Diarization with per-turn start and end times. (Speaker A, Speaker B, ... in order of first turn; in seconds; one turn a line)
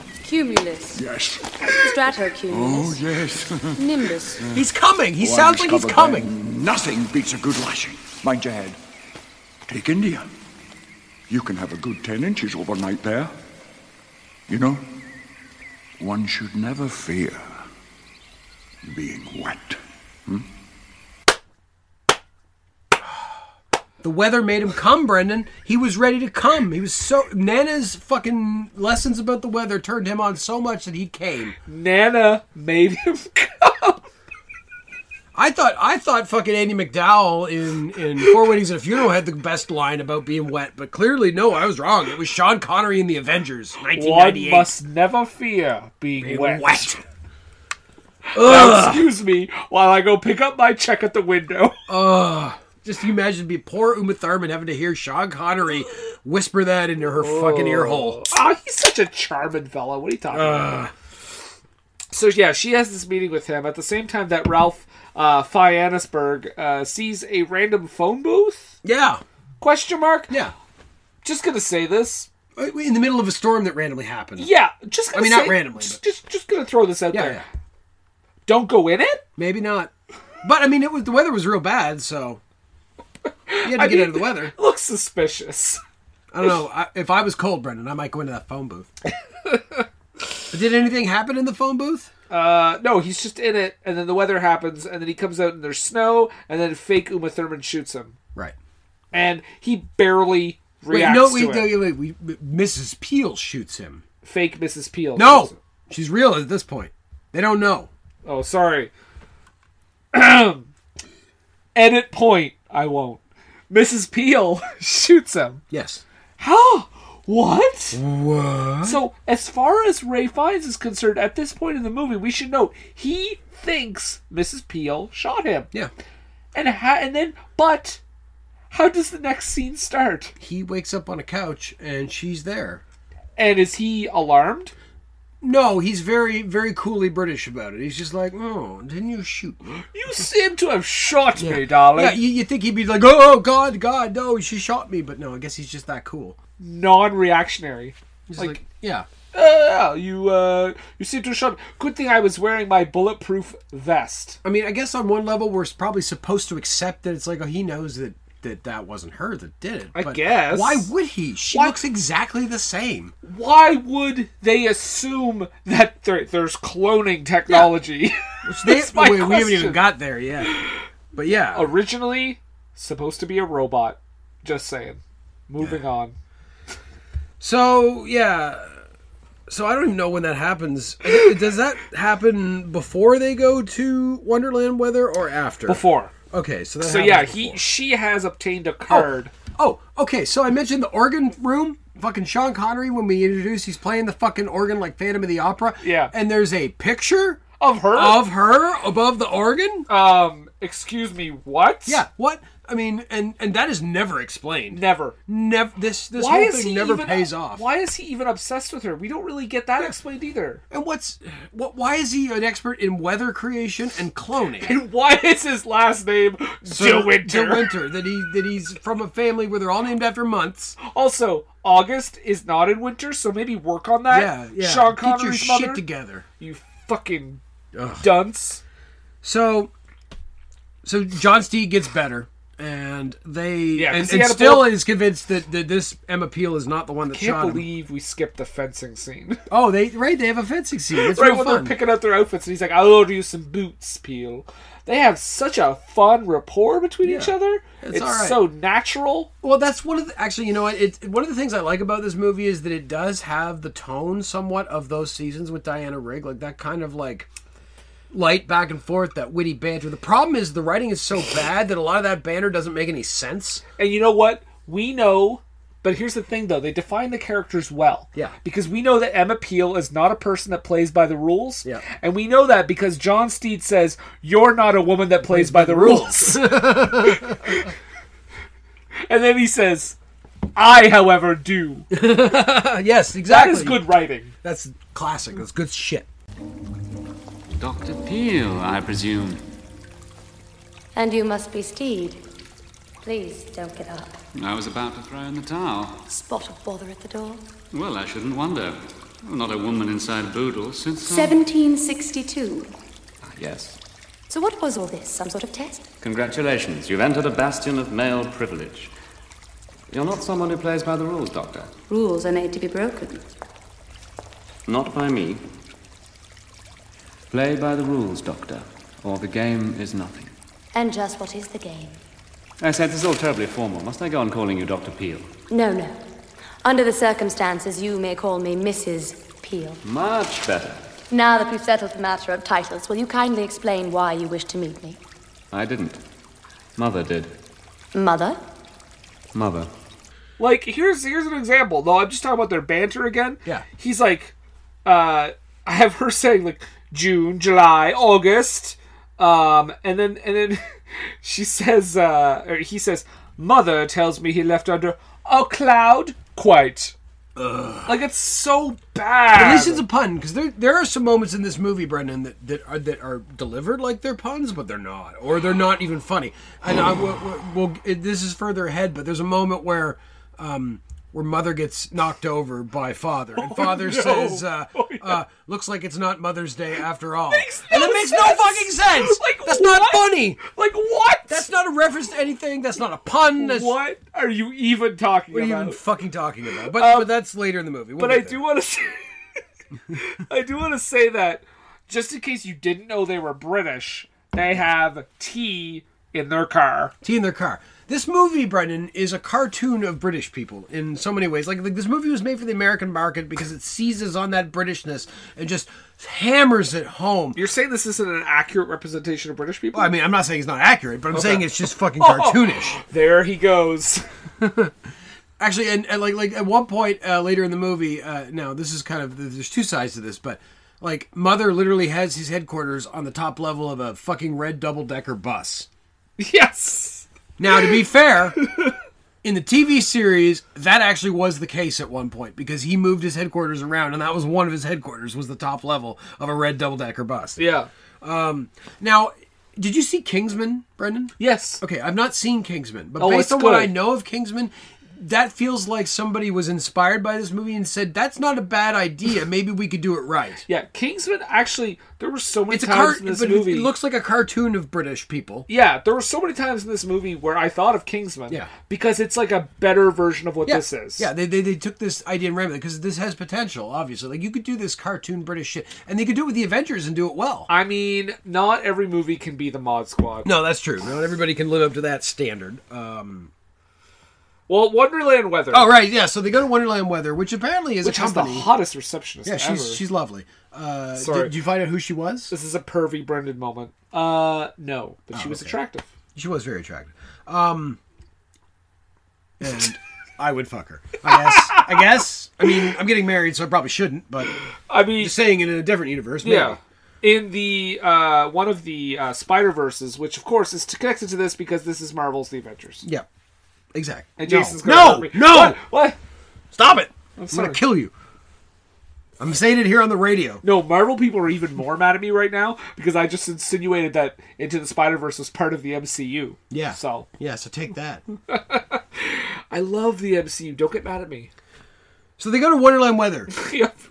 Speaker A: 0.2-1.0
Speaker B: 0.9-4.6
Speaker A: 1.6-3.0
Speaker A: 3.8-4.4
Speaker C: 4.5-6.3
Speaker B: 5.2-8.8
Speaker B: 9.7-10.3
Speaker B: 11.3-13.3
Speaker B: 14.5-14.8
Speaker B: 16.0-17.6
Speaker B: 18.8-20.4
Speaker C: 24.0-31.6
Speaker D: 31.7-34.1
Speaker C: 35.3-44.7
Speaker D: 43.9-46.9
Speaker C: 46.2-47.0
Speaker D: 48.3-51.8
Speaker C: 48.4-49.1
Speaker C: 51.9-58.3
Speaker D: 57.2-60.9
Speaker C: 60.3-60.9
Speaker D: 62.1-68.8
Speaker C: 68.8-69.2
Speaker D: 69.6-70.3
Speaker C: 70.3-70.5
Speaker D: 71.2-72.3
Speaker C: 72.6-74.5
Speaker D: 74.4-77.4
Speaker C: 75.1-76.0
Speaker C: 77.1-77.5
Speaker D: 78.5-79.2
Speaker C: 79.4-79.9
Speaker C: 80.4-82.4
Speaker D: 83.5-85.8
Speaker C: 83.6-84.5
Speaker C: 86.3-88.9
Speaker D: 89.5-89.8
Speaker C: 90.5-92.1
Speaker D: 92.3-98.2
Speaker D: 99.1-101.8
Speaker C: 100.9-104.0
Speaker D: 104.2-105.6
Speaker C: 105.2-107.9
Speaker D: 108.2-108.9
Speaker D: 110.1-110.7
Speaker D: 111.8-115.6
Speaker C: 115.7-116.0
Speaker D: 116.4-118.0
Speaker C: 117.9-119.0
Speaker D: 118.8-125.7
Speaker D: 126.5-128.0
Speaker D: 128.7-130.3
Speaker C: 130.4-132.8
Speaker D: 133.4-134.7
Speaker C: 135.4-139.8
Speaker D: 139.9-142.2
Speaker C: 141.4-146.4
Speaker D: 146.6-148.6
Speaker C: 148.3-149.1
Speaker D: 149.3-154.4
Speaker C: 154.4-163.1
Speaker D: 159.9-160.9
Speaker D: 161.5-161.8
Speaker D: 163.2-169.8
Speaker C: 167.5-167.8
Speaker C: 168.4-170.6
Speaker D: 170.5-170.8
Speaker C: 171.1-171.7
Speaker D: 171.5-176.2
Speaker C: 177.4-178.8
Speaker C: 179.5-187.6
Speaker D: 185.7-186.1
Speaker D: 186.8-189.3
Speaker C: 188.9-199.9
Speaker D: 195.8-196.1
Speaker D: 197.6-198.3
Speaker D: 199.9-202.0
Speaker C: 201.9-207.6
Speaker D: 204.7-205.2
Speaker D: 206.2-210.6
Speaker C: 210.7-214.7
Speaker D: 214.6-217.7
Speaker C: 216.7-220.8
Speaker D: 220.8-225.8
Speaker C: 224.1-226.2
Speaker D: 226.4-227.4
Speaker C: 227.7-228.1
Speaker D: 228.0-228.6
Speaker C: 229.2-229.7
Speaker C: 230.8-237.7
Speaker D: 233.7-234.8
Speaker D: 237.1-239.4
Speaker C: 239.5-241.8
Speaker D: 241.0-249.3
Speaker C: 247.0-248.4
Speaker C: 249.4-257.3
Speaker C: 258.1-263.6
Speaker D: 263.8-277.7
Speaker C: 275.3-277.6
Speaker D: 279.1-280.0
Speaker D: 280.6-281.9
Speaker C: 281.9-283.9
Speaker D: 283.3-284.3
Speaker C: 284.4-286.1
Speaker E: 287.6-289.4
Speaker A: 290.9-292.2
Speaker A: 293.0-294.2
Speaker E: 294.4-296.0
Speaker A: 296.1-297.5
Speaker E: 297.7-301.4
Speaker A: 301.0-302.7
Speaker E: 303.2-303.8
Speaker A: 304.3-305.9
Speaker E: 306.0-308.9
Speaker E: 309.9-311.7
Speaker A: 311.9-313.3
Speaker E: 314.7-315.4
Speaker E: 317.3-320.3
Speaker A: 320.7-322.0
Speaker E: 322.6-325.3
Speaker A: 325.5-326.0
Speaker A: 326.6-329.8
Speaker E: 329.8-330.9
Speaker A: 331.1-335.0
Speaker E: 335.5-336.0
Speaker E: 336.8-337.4
Speaker A: 337.9-338.4
Speaker E: 339.3-339.7
Speaker D: 340.4-344.3
Speaker D: 344.9-356.9
Speaker C: 357.4-357.9
Speaker D: 357.9-359.8
Speaker C: 359.3-380.4
Speaker D: 373.4-375.2
Speaker D: 377.3-381.5
Speaker C: 381.3-383.8
Speaker D: 383.4-385.8
Speaker C: 385.3-388.4
Speaker D: 386.6-387.1
Speaker D: 388.0-396.9
Speaker C: 397.0-407.4
Speaker D: 407.4-409.9
Speaker C: 409.7-412.8
Speaker D: 411.1-411.5
Speaker D: 412.0-414.1
Speaker C: 414.4-414.7
Speaker C: 415.4-425.7
Speaker D: 426.2-427.8
Speaker C: 427.4-428.4
Speaker D: 428.4-428.8
Speaker C: 429.2-437.4
Speaker D: 437.4-437.7
Speaker C: 438.0-450.4
Speaker D: 441.2-441.6
Speaker D: 443.0-443.7
Speaker D: 450.5-453.7
Speaker C: 452.5-455.5
Speaker D: 455.5-461.1
Speaker C: 460.4-467.5
Speaker D: 467.5-470.3
Speaker C: 470.2-473.3
Speaker D: 474.5-475.7
Speaker C: 475.5-478.5
Speaker D: 477.8-479.8
Speaker C: 479.2-482.3
Speaker D: 481.0-481.3
Speaker D: 482.3-485.9
Speaker C: 485.1-485.6
Speaker C: 486.1-487.8
Speaker C: 489.4-494.4
Speaker D: 491.3-491.6
Speaker D: 494.7-495.2
Speaker C: 495.0-496.6
Speaker D: 496.2-502.8
Speaker C: 503.7-505.6
Speaker D: 504.2-506.0
Speaker C: 506.5-507.9
Speaker D: 507.2-507.6
Speaker C: 509.2-510.4
Speaker D: 510.4-517.1
Speaker C: 516.5-518.0
Speaker D: 518.3-521.3
Speaker C: 522.2-523.3
Speaker D: 523.3-523.8